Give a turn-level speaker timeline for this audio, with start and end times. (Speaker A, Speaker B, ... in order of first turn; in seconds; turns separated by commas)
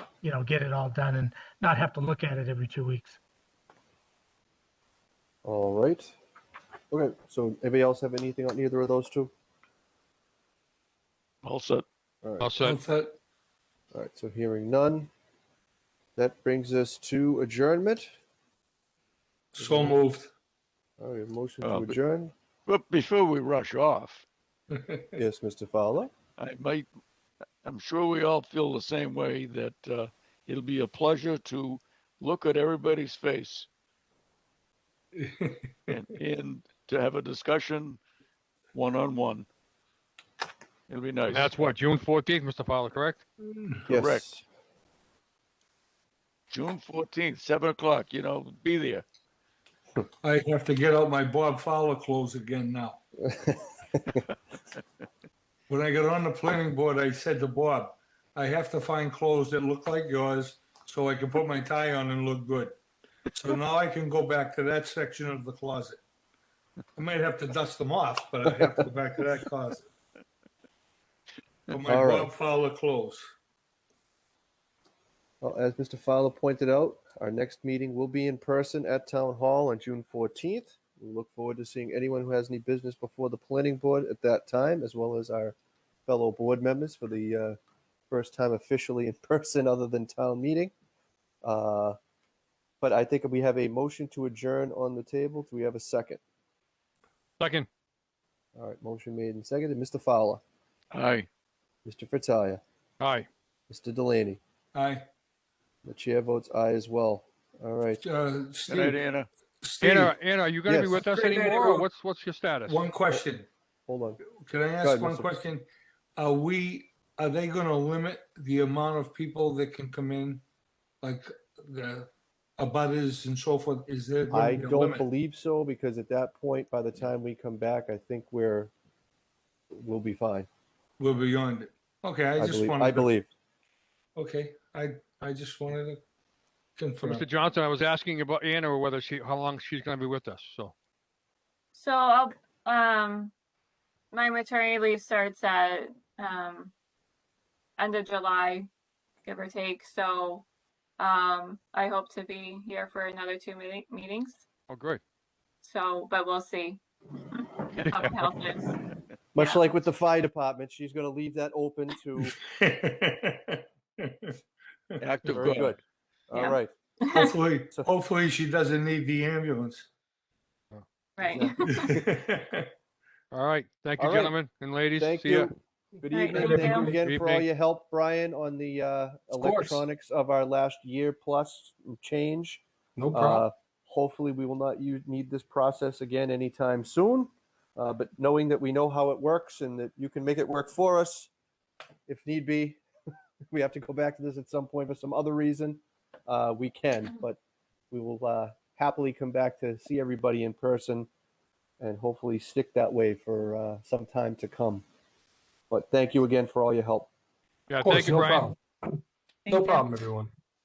Speaker A: 0.2-3.2, Speaker B: 5.4-6.1, Speaker B: 6.9-9.3, Speaker C: 11.4-11.8, Speaker B: 12.2-12.5, Speaker D: 12.4-13.0, Speaker E: 12.6-13.2, Speaker B: 13.9-15.1, Speaker B: 16.1-18.1, Speaker D: 19.6-20.3, Speaker B: 19.6-19.9, Speaker B: 21.0-22.3, Speaker C: 21.6-22.0, Speaker C: 22.7-24.2, Speaker B: 25.2-26.1, Speaker C: 26.4-26.9, Speaker C: 27.6-33.7, Speaker E: 35.2-35.5, Speaker C: 35.9-38.0, Speaker C: 38.7-39.5, Speaker C: 40.9-41.6, Speaker D: 41.3-43.6, Speaker B: 43.9-44.4, Speaker C: 43.9-44.2, Speaker C: 46.5-49.0, Speaker D: 50.2-51.4, Speaker E: 50.2-52.3, Speaker D: 52.0-52.9, Speaker B: 53.2-54.2, Speaker E: 55.8-62.7, Speaker D: 56.4-58.0, Speaker D: 60.0-60.9, Speaker D: 61.4-61.7, Speaker D: 63.4-63.6, Speaker E: 63.6-66.0, Speaker D: 67.0-67.6, Speaker E: 67.0-69.8, Speaker D: 68.3-69.5, Speaker E: 71.7-73.2, Speaker D: 71.7-72.5, Speaker B: 71.9-72.3, Speaker B: 75.4-85.5, Speaker B: 86.1-87.6, Speaker B: 88.1-90.7, Speaker B: 91.4-92.0, Speaker B: 92.8-96.2, Speaker D: 97.4-97.7, Speaker B: 98.5-100.4, Speaker C: 100.9-101.3, Speaker B: 101.8-102.6, Speaker D: 103.0-103.3, Speaker B: 103.7-104.4, Speaker E: 104.7-105.0, Speaker B: 105.8-108.0, Speaker D: 108.1-108.7, Speaker E: 108.1-108.9, Speaker C: 108.7-109.3, Speaker D: 109.6-113.2, Speaker E: 109.7-110.2, Speaker B: 110.7-111.0, Speaker E: 111.1-111.9, Speaker E: 112.7-113.5, Speaker B: 113.9-114.2, Speaker E: 114.2-115.6, Speaker D: 114.7-115.2, Speaker B: 114.8-115.3, Speaker E: 116.2-120.4, Speaker E: 121.0-123.0, Speaker D: 122.8-124.8, Speaker E: 123.6-124.1, Speaker B: 124.3-128.7, Speaker B: 129.7-130.5, Speaker E: 131.0-133.0, Speaker D: 131.0-131.6, Speaker B: 132.4-133.3, Speaker E: 134.2-136.0, Speaker D: 134.7-135.1, Speaker E: 136.8-137.3, Speaker D: 136.8-140.7, Speaker F: 141.7-143.3, Speaker F: 144.1-146.7, Speaker F: 147.8-148.7, Speaker F: 149.2-150.4, Speaker F: 151.0-154.4, Speaker D: 154.7-155.0, Speaker F: 155.6-158.8, Speaker C: 157.7-158.3, Speaker B: 159.3-162.3, Speaker F: 159.4-159.7, Speaker E: 162.9-164.4, Speaker C: 165.0-165.8, Speaker B: 165.3-166.7, Speaker F: 166.3-167.3, Speaker D: 167.2-167.7, Speaker E: 167.9-169.8, Speaker F: 171.2-172.0, Speaker B: 171.3-172.0, Speaker E: 172.2-172.7, Speaker D: 173.3-175.5, Speaker B: 174.0-174.3, Speaker B: 175.0-191.3, Speaker F: 176.1-176.9, Speaker D: 176.3-177.4, Speaker E: 176.6-177.0, Speaker E: 179.3-179.8, Speaker E: 183.0-183.4, Speaker B: 192.1-192.8, Speaker B: 193.5-197.4, Speaker B: 197.9-201.1, Speaker B: 201.8-204.8, Speaker B: 205.7-207.1, Speaker D: 207.7-208.5, Speaker E: 207.8-208.9, Speaker E: 209.5-210.3, Speaker F: 209.5-209.8